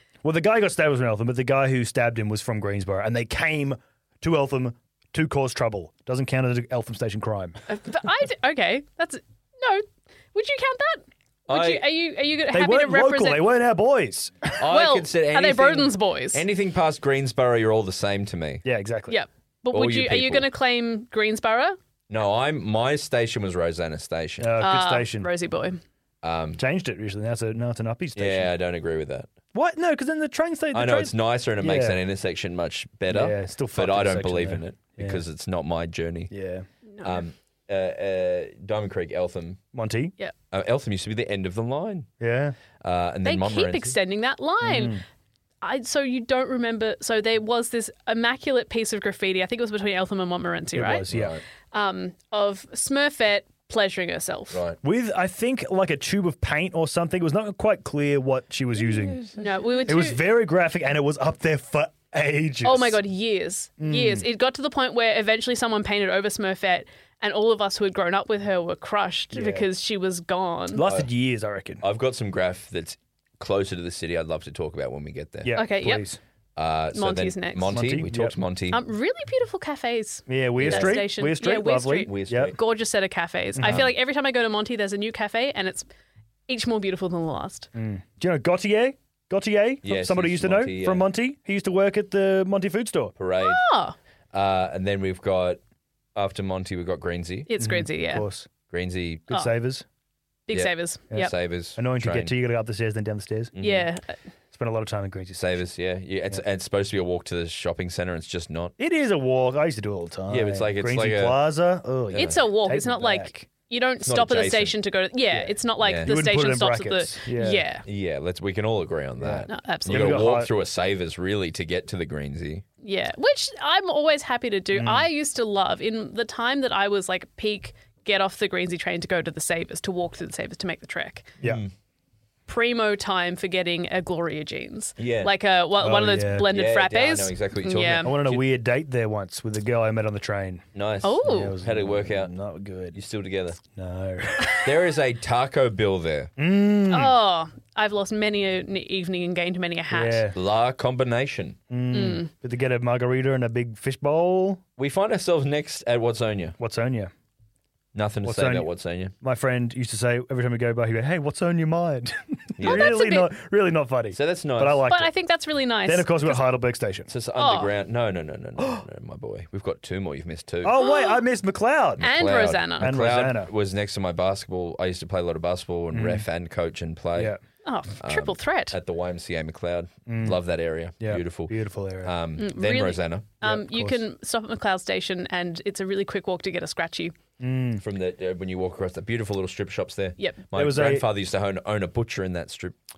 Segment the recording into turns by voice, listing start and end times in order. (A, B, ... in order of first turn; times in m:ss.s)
0:00.2-0:07.6 A
0:07.7-0:13.5 B
0:11.5-0:11.9 C
0:12.5-0:14.6 A
0:14.6-0:18.6 C
0:14.7-0:16.4 B
0:18.6-0:19.2 A
0:19.1-0:21.8 B
0:19.7-0:20.5 C
0:22.1-0:24.6 C
0:24.4-0:25.3 A
0:24.6-0:25.8 B
0:26.2-0:26.6 C
0:26.6-0:28.5 A
0:28.2-0:29.3 C
0:29.5-0:32.0 A
0:30.7-0:36.3 C
0:33.1-0:35.2 A
0:36.3-0:36.7 A
0:36.9-0:37.2 B
0:37.0-0:39.6 C
0:39.7-0:40.1 A
0:40.5-0:42.1 C
0:42.2-0:42.6 A
0:42.8-0:44.0 C
0:43.2-0:45.0 B
0:44.6-0:45.0 A
0:45.6-0:51.1 B
0:50.8-0:51.4 A
0:51.1-0:51.4 C
0:51.7-0:54.6 B
0:54.5-0:54.8 C
0:54.8-0:59.3 A
0:58.8-0:59.5 C
0:59.4-1:00.2 B
0:59.9-1:03.0 A
1:02.6-1:10.8 B
1:03.8-1:04.2 A
1:09.3-1:09.7 A
1:10.7-1:11.8 A
1:11.8-1:15.6 C
1:15.4-1:16.2 A
1:15.5-1:16.1 B
1:16.6-1:18.8 C
1:16.9-1:17.8 B
1:17.7-1:18.4 A
1:18.7-1:25.9 B
1:20.3-1:22.6 A
1:20.6-1:21.1 C
1:22.0-1:22.6 C
1:23.6-1:23.9 A
1:26.5-1:27.7 B
1:27.8-1:33.2 A
1:29.8-1:31.1 C
1:33.2-1:33.6 C
1:33.4-1:34.0 B
1:34.3-1:35.6 C
1:36.2-1:37.5 C
1:37.5-1:38.3 B
1:37.6-1:38.5 A
1:38.7-1:39.3 C
1:39.3-1:39.8 A
1:40.5-1:41.3 B
1:40.5-1:42.4 C
1:41.1-1:43.5 A
1:43.6-1:43.9 C
1:43.6-1:44.2 B
1:44.5-1:45.6 A
1:45.4-1:48.7 C
1:48.8-1:53.5 A
1:50.3-1:51.4 C
1:52.1-1:57.8 B
1:52.1-1:52.4 C
1:54.0-1:54.8 C
1:55.3-1:57.6 A
1:55.8-1:56.1 C
1:57.9-2:02.6 C
1:59.2-2:00.5 A
1:59.5-2:00.3 B
2:02.8-2:11.3 B
2:04.7-2:05.1 A
2:11.4-2:11.7 C
2:12.5-2:18.1 B
2:15.0-2:15.3 C
2:15.8-2:16.5 A
2:16.5-2:18.6 C
2:18.0-2:20.6 A
2:20.8-2:22.3 C
2:21.0-2:21.6 B
2:21.2-2:23.0 A
2:22.9-2:23.6 C
2:23.7-2:24.7 A
2:24.6-2:26.3 C
2:26.4-2:27.2 A
2:26.9-2:30.3 B
2:29.9-2:30.4 A
2:30.3-2:31.6 C
2:31.7-2:34.6 A
2:31.9-2:32.3 B
2:34.8-2:36.6 C
2:36.6-2:37.1 A
2:38.0-2:39.1 C
2:38.2-2:38.7 A
2:39.2-2:45.1 A
2:42.6-2:43.0 C
2:42.6-2:43.3 B
2:44.1-2:44.9 C
2:44.9-2:46.5 B
2:45.9-2:47.1 A
2:47.1-2:50.8 C
2:47.4-2:47.7 B
2:50.6-2:52.1 A
2:50.8-2:51.2 B
2:52.0-2:57.4 C
2:52.0-2:52.9 B
2:52.8-2:53.5 A
2:55.9-2:56.3 A
2:57.6-2:58.8 B
2:58.0-3:03.3 C
3:00.1-3:00.4 A
3:01.0-3:02.1 A
3:02.4-3:07.1 B
3:03.4-3:04.0 A
3:07.4-3:07.8 A
3:07.8-3:12.8 C
3:10.5-3:11.1 A